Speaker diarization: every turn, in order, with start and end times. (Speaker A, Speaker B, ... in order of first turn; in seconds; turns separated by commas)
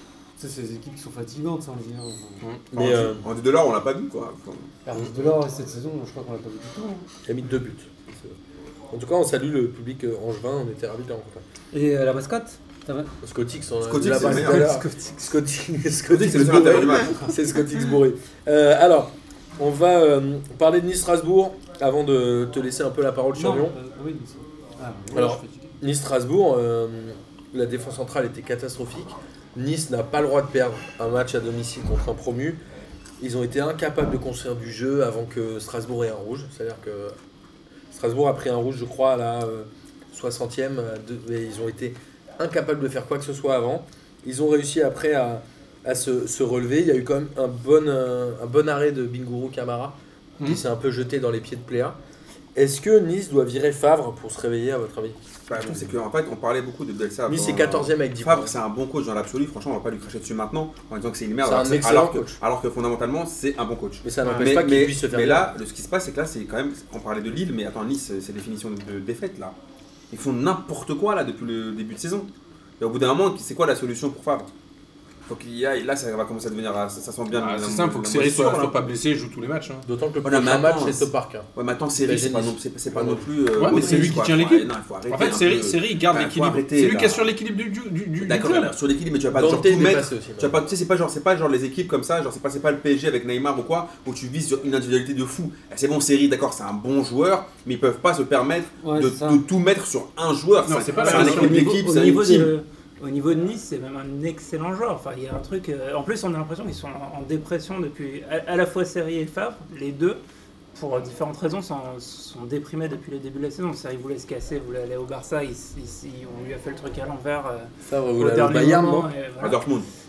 Speaker A: 0.4-2.4, Speaker B: 2.7-3.2, Speaker C: 2.7-4.7, Speaker A: 4.9-7.1, Speaker B: 7.3-8.3, Speaker B: 8.9-11.4, Speaker A: 11.7-13.1, Speaker B: 13.2-23.8, Speaker C: 13.8-14.8, Speaker A: 14.1-15.4, Speaker C: 16.1-17.2, Speaker A: 23.4-25.8, Speaker B: 25.1-32.6, Speaker B: 33.2-37.2, Speaker B: 37.9-52.0, Speaker B: 52.6-55.9, Speaker C: 55.5-69.6, Speaker B: 57.3-58.5, Speaker B: 61.4-62.4, Speaker B: 64.0-65.5, Speaker C: 70.1-72.3, Speaker C: 72.8-74.5, Speaker C: 75.3-78.8, Speaker D: 77.3-79.8, Speaker B: 79.8-83.3, Speaker C: 80.2-87.2, Speaker D: 83.6-88.7, Speaker C: 88.2-102.5, Speaker B: 89.3-90.5, Speaker A: 98.8-99.4, Speaker D: 100.7-101.7, Speaker E: 101.0-110.2, Speaker E: 110.8-119.7, Speaker B: 117.9-119.1, Speaker C: 119.4-119.9